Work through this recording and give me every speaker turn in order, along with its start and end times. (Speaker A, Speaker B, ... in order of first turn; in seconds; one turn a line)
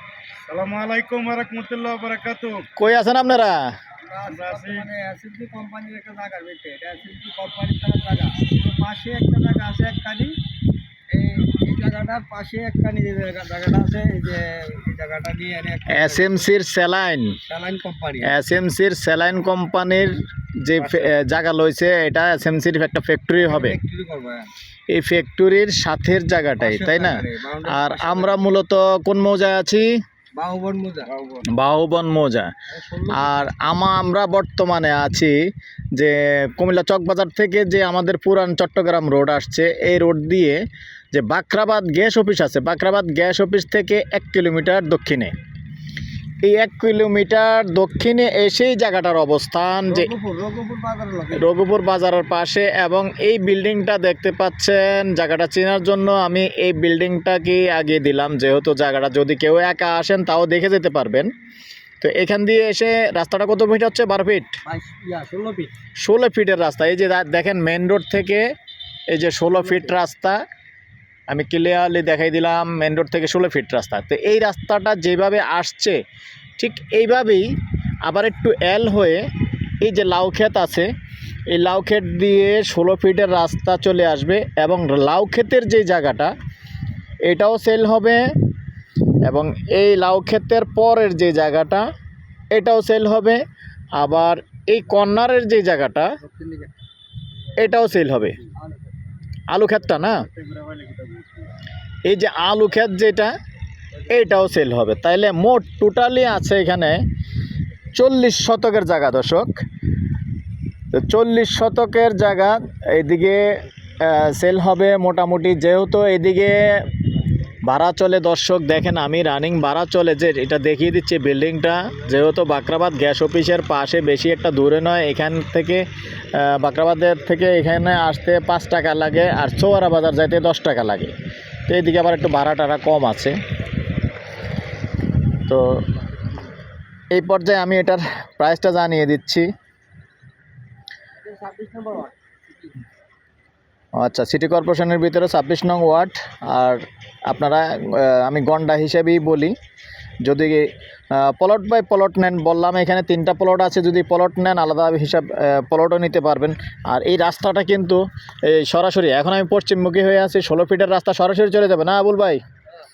Speaker A: 0.5-2.7
Speaker B: 2.8-3.7
Speaker C: 4.0-10.4
Speaker A: 4.3-4.9
Speaker C: 11.1-16.5
Speaker B: 15.9-17.4
Speaker C: 17.5-18.4
Speaker B: 18.2-23.8
Speaker C: 23.4-24.5
Speaker B: 24.9-30.0
Speaker C: 26.6-28.6
Speaker C: 30.4-31.4
Speaker B: 31.5-32.5
Speaker C: 32.7-33.5
Speaker B: 33.1-45.3
Speaker B: 46.4-50.1
Speaker C: 49.9-51.5
Speaker B: 51.3-61.3
Speaker B: 62.0-64.6
Speaker C: 64.7-65.7
Speaker B: 66.0-68.5
Speaker B: 69.1-70.4
Speaker C: 69.7-70.0
Speaker B: 71.3-76.0
Speaker B: 76.6-77.5
Speaker B: 78.0-79.3
Speaker B: 79.8-80.9
Speaker B: 81.5-86.3
Speaker B: 87.2-88.5
Speaker B: 89.2-91.9
Speaker B: 92.5-96.2
Speaker C: 96.2-96.7
Speaker B: 97.6-98.4
Speaker C: 98.4-98.8
Speaker B: 99.5-100.3
Speaker C: 100.4-101.3
Speaker B: 102.0-103.3
Speaker B: 104.1-107.0
Speaker B: 107.9-109.7
Speaker B: 110.9-116.9
Speaker B: 117.6-131.2
Speaker B: 131.7-133.4
Speaker B: 135.5-135.8
Speaker B: 137.1-139.5
Speaker C: 141.2-142.7
Speaker B: 143.9-149.6
Speaker B: 150.2-162.4